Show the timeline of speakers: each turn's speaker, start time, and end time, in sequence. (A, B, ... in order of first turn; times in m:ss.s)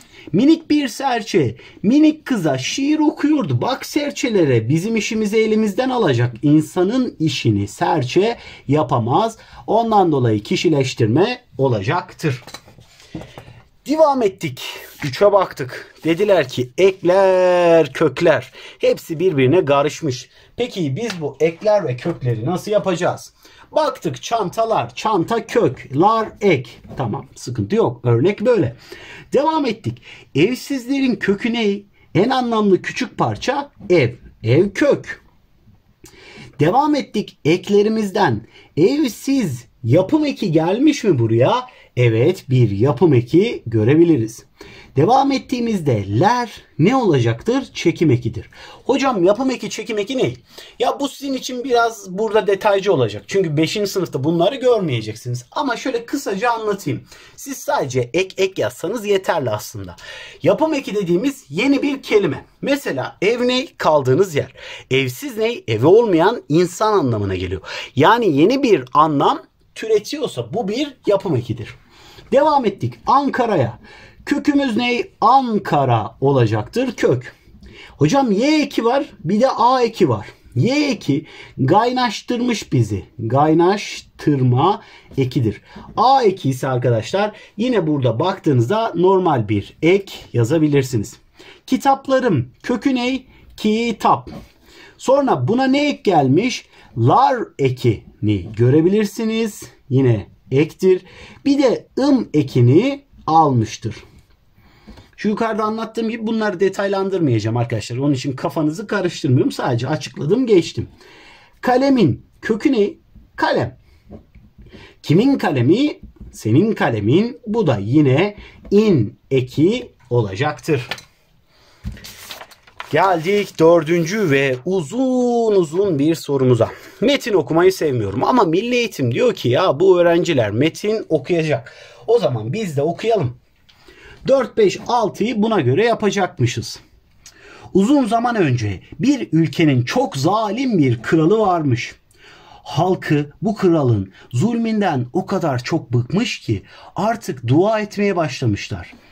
0:00.3-0:12.4 A
0:13.8-0:28.8 A
0:29.3-0:35.2 A
0:36.6-1:11.8 A
1:12.3-1:17.4 A
1:18.0-1:34.3 A
1:35.0-1:44.0 A
1:45.2-1:50.9 A
1:51.6-1:53.8 A
1:55.0-2:00.9 A
2:02.9-2:13.4 A
2:14.2-2:16.8 A
2:17.7-2:22.0 A
2:22.6-2:28.9 A